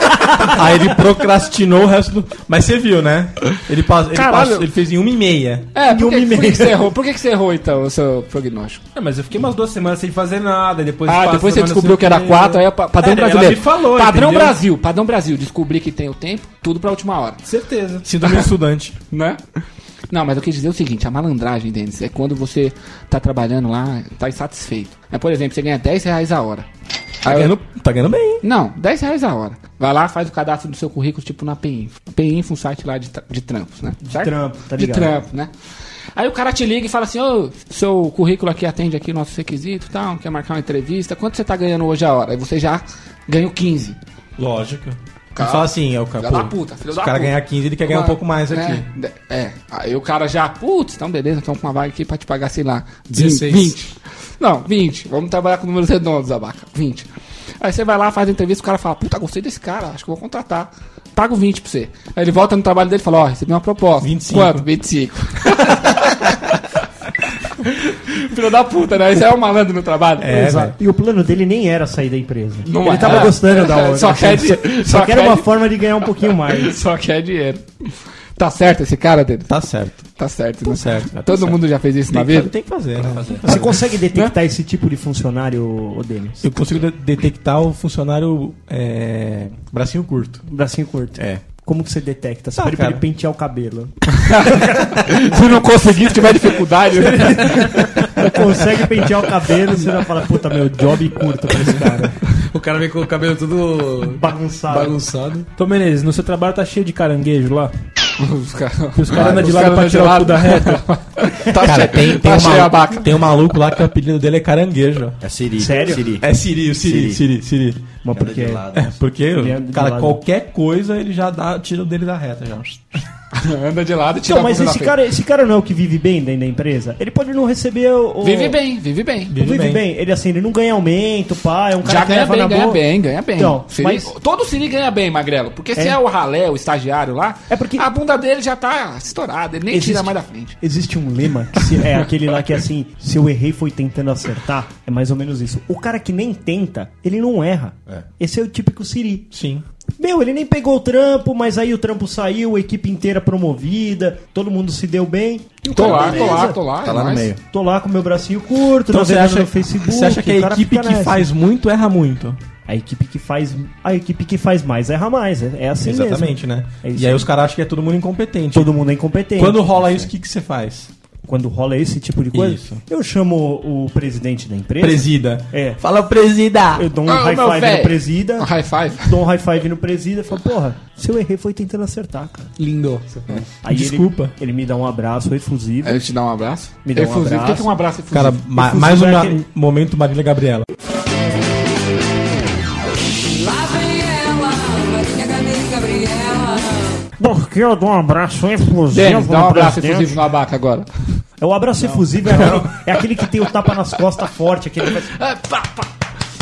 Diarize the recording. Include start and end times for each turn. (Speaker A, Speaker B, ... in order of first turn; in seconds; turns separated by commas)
Speaker A: 0.5-5.7, Speaker B: 4.1-4.7, Speaker B: 5.7-8.8, Speaker C: 5.8-6.9, Speaker D: 8.9-14.6, Speaker B: 11.1-17.4, Speaker D: 17.4-18.1, Speaker A: 18.0-18.9, Speaker B: 19.1-19.4, Speaker B: 20.1-26.7, Speaker B: 27.2-27.6, Speaker A: 27.2-28.4, Speaker B: 28.4-35.5, Speaker C: 34.0-35.2, Speaker B: 36.1-44.0, Speaker A: 44.4-48.9, Speaker B: 45.4-57.1, Speaker E: 53.1-53.8, Speaker B: 57.6-66.3, Speaker A: 64.0-64.7, Speaker B: 68.1-70.4, Speaker A: 70.2-70.7, Speaker C: 70.3-76.8, Speaker B: 72.7-75.5, Speaker B: 76.5-79.5, Speaker A: 79.5-80.1, Speaker B: 80.2-82.5, Speaker A: 80.6-83.8, Speaker C: 83.4-86.5, Speaker A: 86.4-90.4, Speaker C: 90.5-93.9, Speaker A: 91.2-91.5, Speaker A: 92.5-93.0, Speaker B: 94.2-97.7, Speaker C: 94.5-95.6, Speaker C: 98.2-102.2, Speaker E: 102.5-105.5, Speaker C: 104.0-105.0, Speaker D: 105.6-107.7, Speaker B: 108.2-113.2, Speaker D: 108.9-110.8, Speaker A: 111.6-115.2, Speaker F: 115.2-116.3, Speaker C: 115.6-116.1, Speaker A: 116.2-117.9, Speaker F: 116.8-117.2, Speaker C: 118.0-118.7, Speaker F: 118.1-119.0, Speaker A: 118.7-123.0, Speaker C: 119.2-120.2, Speaker B: 123.3-125.0, Speaker C: 124.2-128.6, Speaker B: 128.2-129.3, Speaker A: 129.3-129.8, Speaker C: 129.3-132.8, Speaker B: 131.8-140.6, Speaker C: 133.3-134.1, Speaker C: 137.5-137.8, Speaker C: 139.7-149.3, Speaker A: 149.3-149.6, Speaker C: 150.0-156.6, Speaker B: 155.7-157.3, Speaker F: 155.8-157.4, Speaker C: 157.4-161.3, Speaker A: 158.9-162.4, Speaker C: 162.7-167.3, Speaker A: 165.8-168.7, Speaker C: 168.5-170.1, Speaker A: 169.3-170.9, Speaker C: 171.2-175.8, Speaker A: 172.3-172.8, Speaker A: 174.8-176.8, Speaker C: 176.8-178.5, Speaker B: 177.0-179.2, Speaker C: 179.0-182.5, Speaker E: 182.6-183.4, Speaker C: 183.6-186.0, Speaker A: 183.7-184.3, Speaker B: 185.8-188.4, Speaker C: 186.8-187.7, Speaker A: 188.1-190.7, Speaker C: 188.5-189.4, Speaker G: 193.2-197.0, Speaker C: 197.2-200.1, Speaker B: 198.9-200.9, Speaker C: 201.4-205.1, Speaker B: 202.3-202.7, Speaker B: 205.1-205.9